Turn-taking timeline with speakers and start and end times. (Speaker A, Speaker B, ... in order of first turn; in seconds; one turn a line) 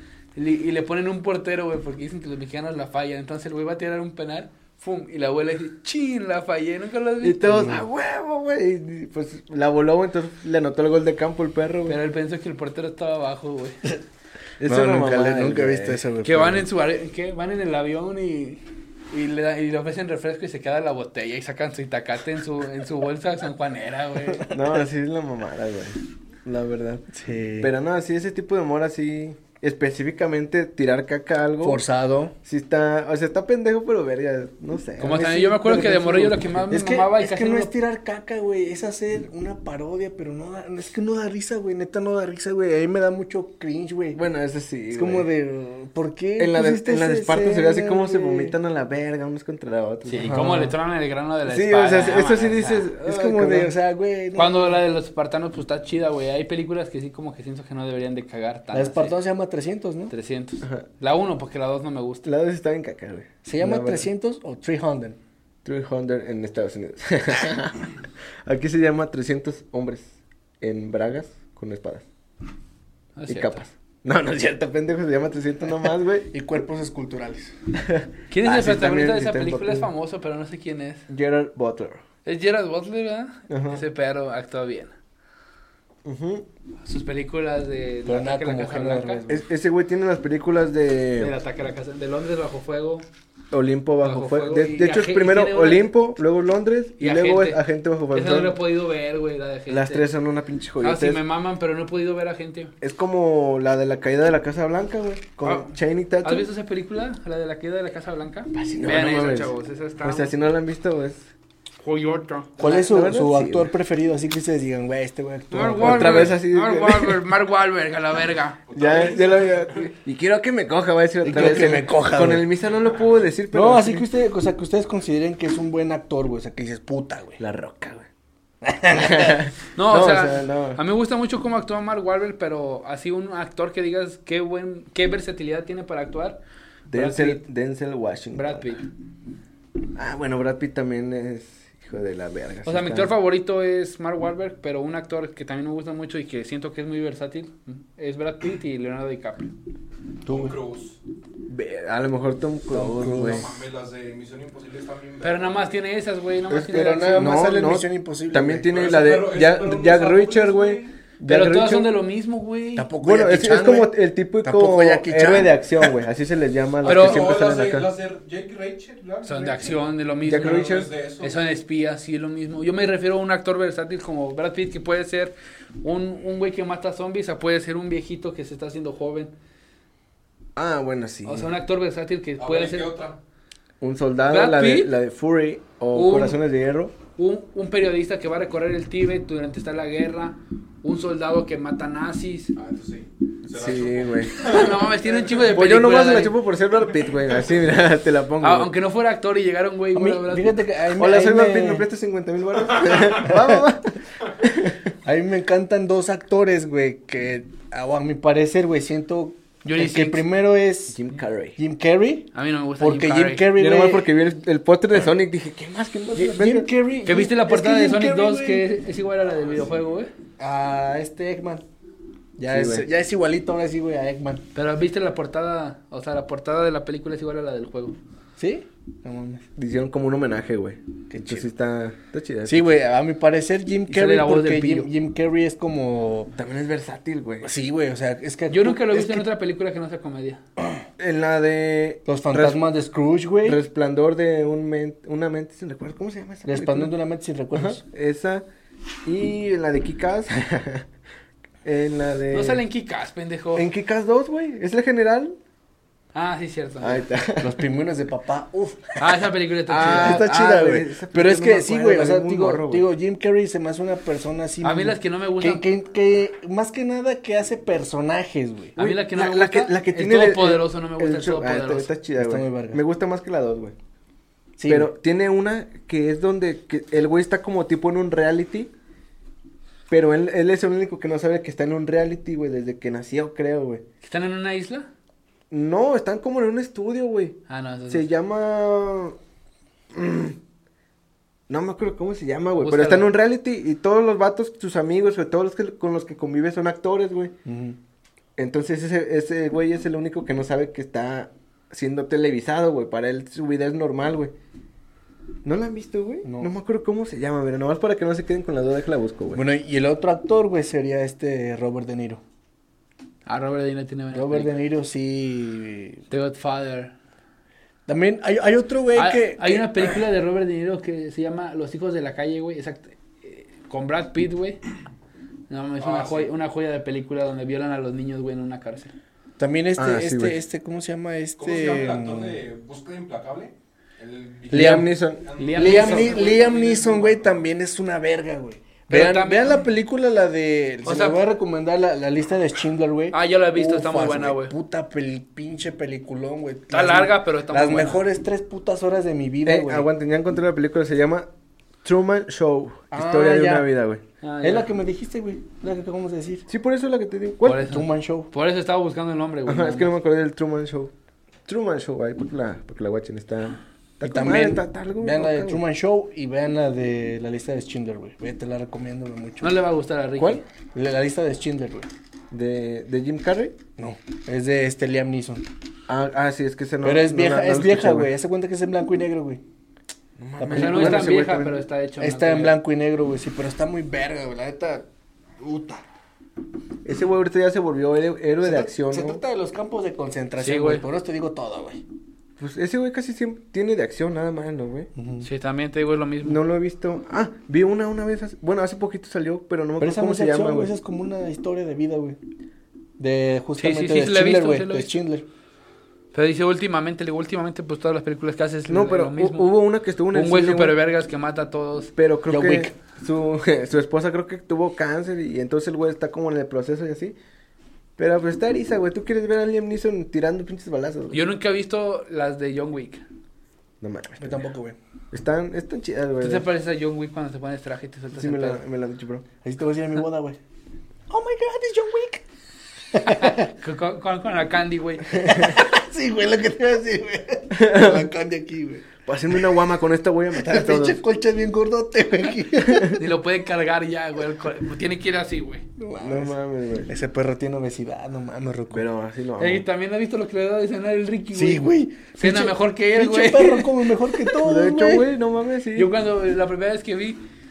Speaker A: 0.3-7.8
Speaker B: 7.2-12.0
Speaker A: 11.9-13.9
Speaker B: 14.6-16.0
Speaker C: 14.6-16.6
Speaker A: 16.2-24.5
Speaker B: 24.5-27.1
Speaker C: 27.1-27.7
Speaker B: 27.6-31.8
Speaker C: 31.6-32.3
Speaker B: 32.5-36.0
Speaker A: 35.0-37.7
Speaker C: 35.7-44.2
Speaker B: 44.1-45.3
Speaker C: 44.9-48.6
Speaker B: 46.4-50.7
Speaker A: 50.1-52.9
Speaker C: 50.2-50.6
Speaker B: 51.5-53.7
Speaker C: 53.0-54.8
Speaker A: 54.4-59.1
Speaker C: 58.7-60.1
Speaker A: 60.1-62.3
Speaker B: 62.2-64.1
Speaker C: 63.5-65.2
Speaker B: 65.7-72.1
Speaker A: 73.2-73.6
Speaker B: 73.3-76.3
Speaker C: 76.3-77.5
Speaker B: 77.8-79.9
Speaker A: 78.3-81.1
Speaker B: 81.1-82.0
Speaker A: 82.2-84.9
Speaker B: 83.5-83.8
Speaker B: 86.0-86.5
Speaker A: 86.8-89.2
Speaker C: 88.1-89.4
Speaker B: 89.3-91.3
Speaker A: 91.2-93.1
Speaker B: 93.5-98.6
Speaker A: 94.0-95.9
Speaker A: 97.0-97.6
Speaker A: 98.1-100.1
Speaker B: 99.7-101.2
Speaker A: 100.8-102.7
Speaker B: 102.8-106.5
Speaker A: 105.4-110.3
Speaker B: 108.5-109.5
Speaker B: 110.0-111.3
Speaker A: 111.8-112.7
Speaker C: 112.6-116.3
Speaker B: 112.6-113.7
Speaker A: 115.5-118.6
Speaker B: 115.8-117.2
Speaker D: 118.7-119.9
Speaker B: 118.8-124.1
Speaker C: 121.2-122.5
Speaker D: 122.7-123.3
Speaker C: 123.5-127.4
Speaker B: 127.4-128.1
Speaker C: 128.6-129.4
Speaker B: 128.9-130.8
Speaker A: 129.8-136.4
Speaker B: 136.9-138.7
Speaker A: 136.9-137.4
Speaker A: 138.3-138.9
Speaker B: 139.9-143.1
Speaker A: 142.7-149.5
Speaker B: 150.3-150.6
Speaker D: 150.3-151.0
Speaker B: 151.5-153.6
Speaker C: 152.7-153.5
Speaker D: 153.0-155.6
Speaker A: 155.2-157.4
Speaker B: 156.5-161.9
Speaker C: 156.7-158.7
Speaker D: 158.7-160.9
Speaker A: 161.2-162.9
Speaker C: 162.8-165.9
Speaker B: 163.0-167.9
Speaker A: 166.8-167.3
Speaker D: 166.8-171.4
Speaker A: 169.2-179.3
Speaker B: 170.2-170.9
Speaker B: 180.6-181.5
Speaker A: 181.2-183.0
Speaker D: 182.4-183.2
Speaker B: 183.8-186.9
Speaker A: 184.3-184.9
Speaker A: 185.9-186.4
Speaker A: 187.2-192.5
Speaker D: 192.6-195.5
Speaker B: 193.5-194.4
Speaker A: 194.4-196.4
Speaker B: 195.5-198.7
Speaker A: 198.4-200.6
Speaker C: 199.9-201.9
Speaker B: 201.0-204.9
Speaker D: 202.7-203.1
Speaker C: 203.1-203.6
Speaker C: 205.1-211.0
Speaker A: 209.7-210.2
Speaker B: 210.9-211.6
Speaker C: 211.6-214.1
Speaker A: 212.3-213.5
Speaker B: 213.6-216.7
Speaker C: 216.2-218.7
Speaker A: 217.1-220.1
Speaker C: 220.4-221.6
Speaker C: 222.4-224.4
Speaker B: 222.5-222.9
Speaker A: 224.6-228.0
Speaker C: 228.4-229.5
Speaker B: 229.6-232.7
Speaker C: 231.1-231.5
Speaker C: 232.5-236.3
Speaker A: 233.9-234.9
Speaker B: 236.4-237.5
Speaker C: 237.4-239.3
Speaker A: 238.5-240.4
Speaker B: 241.0-242.6
Speaker C: 242.1-243.6
Speaker B: 243.4-246.9
Speaker C: 246.4-247.8
Speaker B: 247.6-248.4
Speaker B: 249.1-250.9
Speaker B: 251.6-252.6
Speaker A: 252.3-253.7
Speaker B: 253.6-255.4
Speaker A: 256.1-257.1
Speaker B: 256.8-257.6
Speaker C: 257.4-259.0
Speaker A: 259.0-260.2
Speaker B: 259.7-262.9
Speaker C: 259.8-268.8
Speaker A: 264.6-265.6
Speaker A: 268.8-271.9
Speaker B: 268.8-273.8
Speaker C: 272.2-272.8
Speaker C: 274.6-274.9
Speaker B: 274.7-278.7
Speaker B: 279.9-283.8
Speaker A: 284.0-284.9
Speaker B: 285.5-287.4
Speaker A: 287.5-288.1
Speaker B: 287.9-289.2
Speaker B: 289.9-290.4
Speaker B: 291.5-297.3
Speaker A: 292.6-293.1
Speaker C: 297.4-297.8
Speaker B: 298.4-304.3
Speaker B: 305.4-309.4
Speaker C: 306.2-306.5
Speaker C: 309.3-312.2
Speaker A: 313.3-314.5
Speaker C: 314.1-316.0
Speaker A: 316.1-316.9
Speaker C: 317.9-320.0
Speaker A: 318.9-324.6
Speaker A: 325.5-328.9
Speaker D: 325.8-326.3
Speaker C: 329.4-332.4
Speaker B: 329.8-330.4
Speaker D: 331.4-337.3
Speaker C: 334.5-334.9
Speaker B: 334.5-335.2
Speaker A: 335.4-336.6
Speaker C: 335.6-349.9
Speaker A: 338.9-339.6
Speaker A: 340.9-341.2
Speaker A: 343.1-344.5
Speaker A: 346.7-348.0
Speaker B: 349.4-351.3
Speaker B: 351.8-354.0
Speaker C: 352.9-353.7
Speaker A: 354.2-354.7
Speaker C: 354.4-356.5
Speaker B: 356.5-357.6
Speaker A: 357.4-359.9
Speaker C: 357.7-358.3
Speaker B: 359.5-360.9
Speaker B: 361.5-365.6
Speaker C: 364.0-369.6
Speaker A: 369.4-370.4
Speaker C: 370.8-371.9
Speaker B: 372.3-373.6
Speaker C: 373.8-375.4
Speaker B: 375.9-378.1
Speaker C: 376.8-379.4
Speaker B: 380.2-381.6
Speaker C: 380.4-381.4
Speaker A: 380.5-382.6
Speaker C: 382.0-384.9
Speaker C: 385.4-385.8
Speaker B: 386.8-389.2
Speaker C: 388.4-391.8
Speaker A: 390.4-390.9
Speaker B: 392.4-394.9
Speaker C: 395.0-395.3
Speaker A: 395.2-396.4
Speaker B: 396.2-400.7
Speaker C: 399.8-402.2
Speaker C: 403.0-405.3
Speaker A: 403.6-404.9
Speaker A: 406.1-409.5
Speaker B: 408.7-410.8
Speaker A: 410.1-411.9
Speaker B: 412.0-417.2
Speaker C: 412.3-412.7
Speaker B: 418.0-421.2
Speaker A: 421.1-423.1
Speaker B: 423.8-424.5
Speaker C: 424.2-424.8
Speaker B: 425.1-426.4
Speaker A: 426.2-428.6
Speaker B: 428.1-429.3
Speaker C: 429.4-430.4
Speaker C: 431.1-432.2
Speaker C: 432.9-433.5
Speaker A: 433.0-435.5
Speaker C: 435.1-439.6
Speaker B: 437.5-438.1
Speaker B: 439.1-441.0
Speaker C: 440.4-443.0
Speaker B: 442.7-443.0
Speaker A: 443.0-445.6
Speaker C: 445.8-446.4
Speaker B: 446.0-446.9
Speaker C: 446.9-448.9
Speaker B: 448.7-449.7
Speaker A: 449.4-451.7
Speaker C: 451.3-455.1
Speaker A: 452.2-454.3
Speaker B: 454.4-455.9
Speaker A: 455.8-457.2